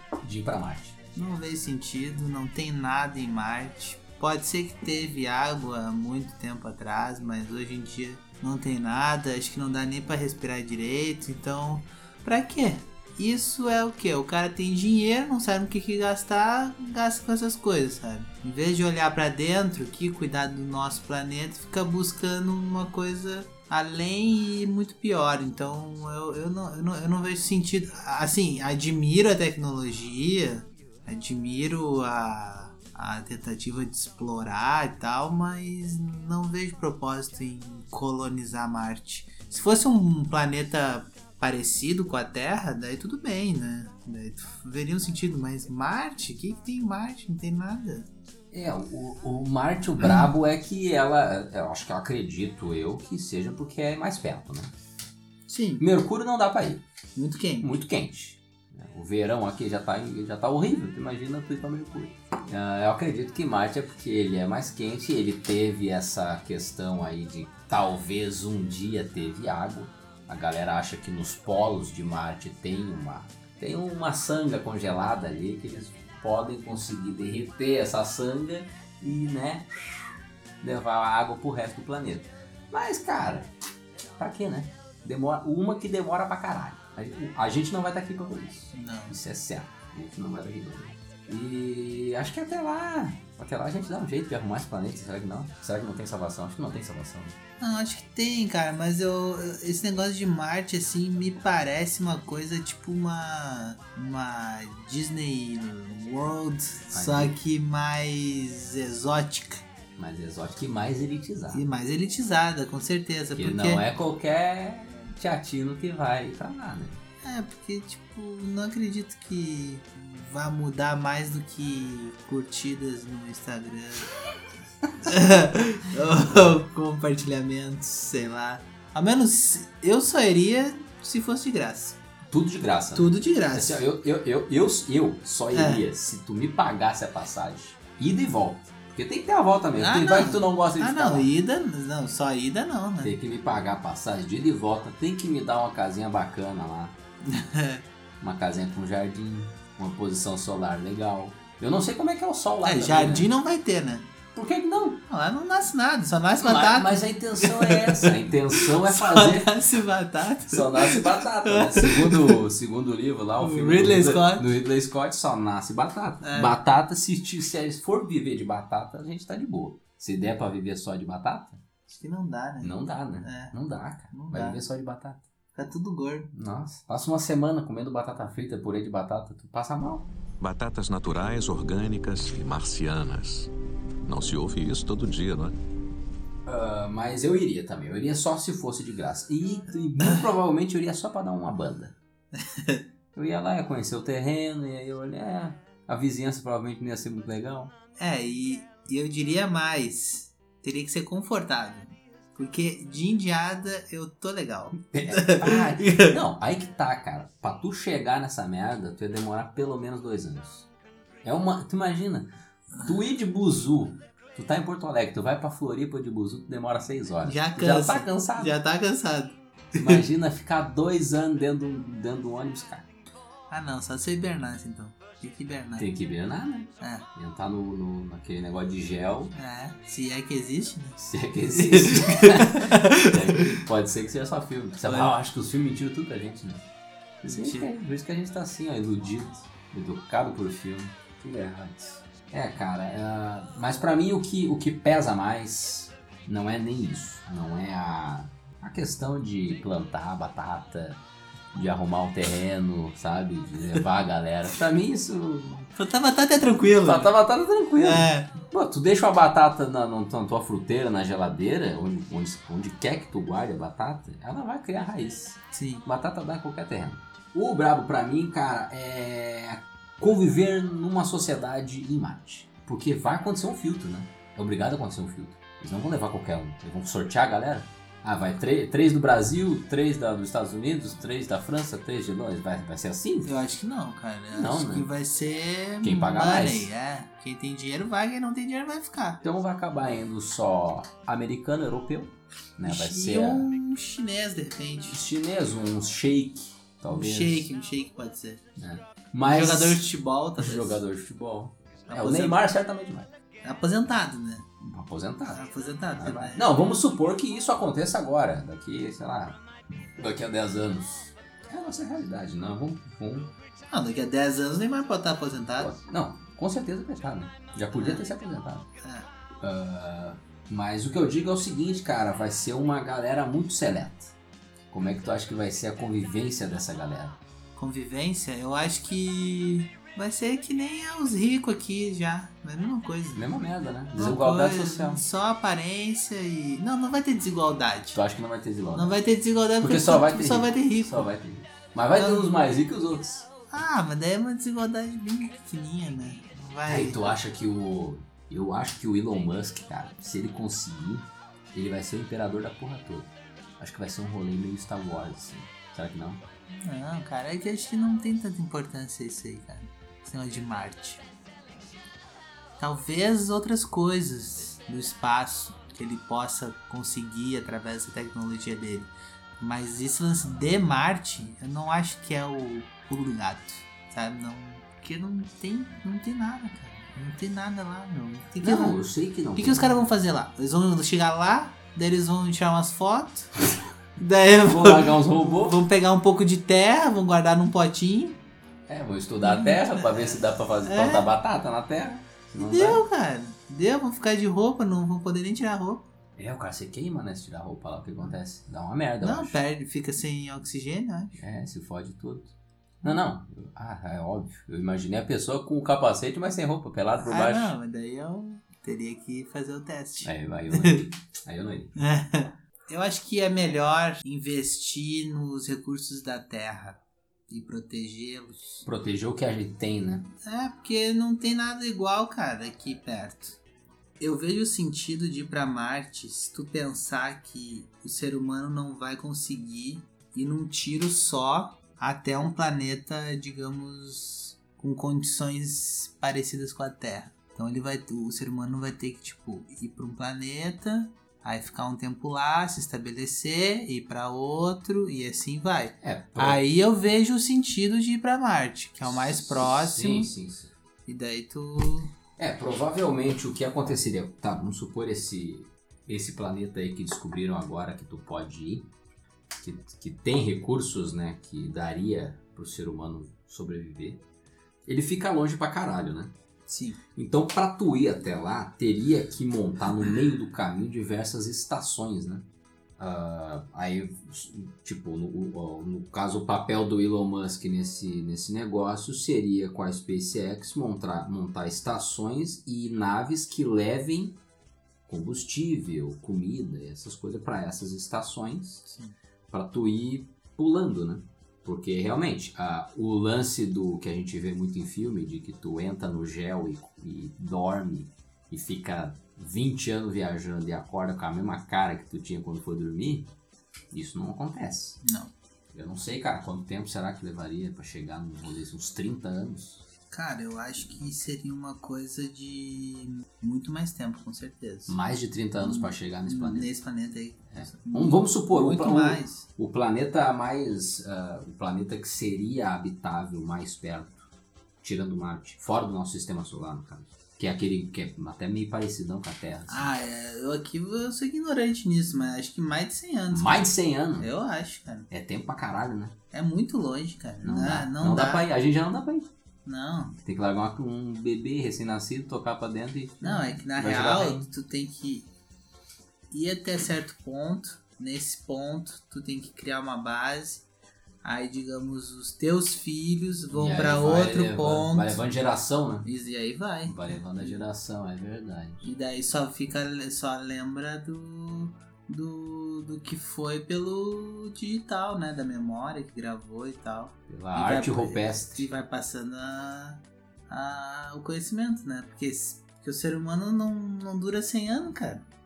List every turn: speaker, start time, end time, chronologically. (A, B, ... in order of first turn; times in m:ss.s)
0:00.2-0:01.0 A
0:01.2-0:48.1 B
0:48.5-0:54.7 A
0:55.5-0:55.8 B
0:55.8-0:56.8 A
0:57.2-0:57.8 B
0:57.6-1:23.5 A
1:24.2-1:37.4 A
1:28.7-1:29.2 B
1:37.6-1:49.6 B
1:46.9-1:47.3 A
1:50.0-1:51.6 A
1:51.5-1:53.8 B
1:53.3-1:57.0 A
1:57.2-2:04.1 B
2:05.0-2:12.0 B
2:12.3-2:21.3 A
2:13.0-2:13.8 B
2:15.5-2:15.8 B
2:19.8-2:23.1 B
2:23.0-2:27.0 A
2:27.3-2:27.8 B
2:28.2-2:33.3 A
2:32.6-2:34.1 B
2:34.3-2:35.0 A
2:35.1-2:42.4 B
2:36.4-2:39.6 A
2:40.5-2:51.6 A
2:43.4-2:44.5 B
2:46.2-2:46.5 B
2:51.9-2:53.5 B
2:52.6-2:55.3 A
2:54.1-2:54.6 B
2:55.5-2:56.3 B
2:56.3-3:00.1 A
3:00.4-3:03.5 C
3:04.0-3:05.6 C
3:06.5-3:11.9 A
3:12.3-3:12.8 B
3:13.2-3:17.7 A
3:18.0-3:26.2 B
3:24.9-3:30.7 A
3:31.2-3:32.3 A
3:32.8-3:38.6 A
3:37.2-3:40.0 B
3:39.7-3:42.9 A
3:43.5-3:45.8 B
3:45.8-3:49.3 A
3:46.8-3:47.0 B
3:49.3-3:53.6 B
3:51.0-3:56.7 A
3:54.8-3:55.2 B
3:57.2-3:57.7 B
3:57.3-4:11.0 A
4:11.5-4:15.7 A
4:15.8-4:17.1 B
4:16.4-4:43.3 A
4:17.8-4:18.3 B
4:25.5-4:25.8 B
4:43.2-4:49.2 B
4:44.3-4:44.9 A
4:45.8-4:46.7 A
4:49.2-4:53.5 A
4:52.6-4:55.0 B
4:54.8-4:57.5 A
4:56.9-4:58.4 B
4:58.6-4:59.8 A
4:59.2-5:00.8 B
5:00.4-5:03.1 A
5:01.9-5:02.4 B
5:03.4-5:04.5 B
5:04.6-5:05.4 A
5:05.3-5:06.5 B
5:06.0-5:13.3 A
5:13.7-5:15.7 B
5:15.6-5:18.6 A
5:17.7-5:18.0 B
5:18.8-5:19.1 B
5:19.4-5:24.1 A
5:24.7-5:27.2 A
5:27.6-5:33.3 B
5:33.1-5:35.0 A
5:34.0-5:38.0 B
5:37.9-5:39.0 A
5:38.8-5:41.1 B
5:39.6-5:43.3 A
5:42.0-5:42.3 B
5:43.5-5:47.0 B
5:46.6-5:56.2 A
5:56.5-6:01.0 B
6:02.6-6:18.8 B
6:18.4-6:19.9 A
6:19.3-6:23.4 B
6:24.0-6:28.2 B
6:24.4-6:25.6 A
6:28.7-6:32.8 A
6:29.2-6:31.1 B
6:32.4-6:35.8 B
6:36.2-6:39.4 A
6:39.0-6:41.2 B
6:41.2-6:47.5 A
6:47.0-6:50.8 B
6:50.0-6:51.8 A
6:51.8-6:58.6 B
6:58.6-7:00.1 A
7:00.2-7:03.4 B
7:04.0-7:30.1 B
7:25.8-7:26.4 A
7:28.9-7:30.5 A
7:30.9-7:31.9 B
7:32.2-7:38.7 A
7:39.4-7:44.0 A
7:44.6-7:46.1 A
7:46.5-7:46.8 B
7:47.0-7:52.2 A
7:52.8-8:04.2 A
8:04.9-8:08.6 A
8:08.7-8:08.9 B
8:09.3-8:23.1 A
8:23.7-8:24.8 A
8:24.8-8:25.1 B
8:25.5-8:29.6 A
8:29.9-8:34.8 B
8:34.7-8:36.5 A
8:35.4-8:39.2 B
8:37.3-8:44.1 A
8:44.6-8:49.7 A
8:49.5-8:54.9 B
8:53.1-8:54.1 A
8:54.9-8:56.0 A
8:56.1-8:58.3 B
8:57.2-8:59.1 A
8:59.4-9:00.0 B
9:00.0-9:04.3 A
9:03.0-9:05.1 B
9:06.1-9:10.4 B
9:11.0-9:15.0 B
9:13.3-9:15.9 A
9:15.8-9:17.4 B
9:16.6-9:18.6 A
9:18.6-9:35.0 B
9:27.1-9:28.5 A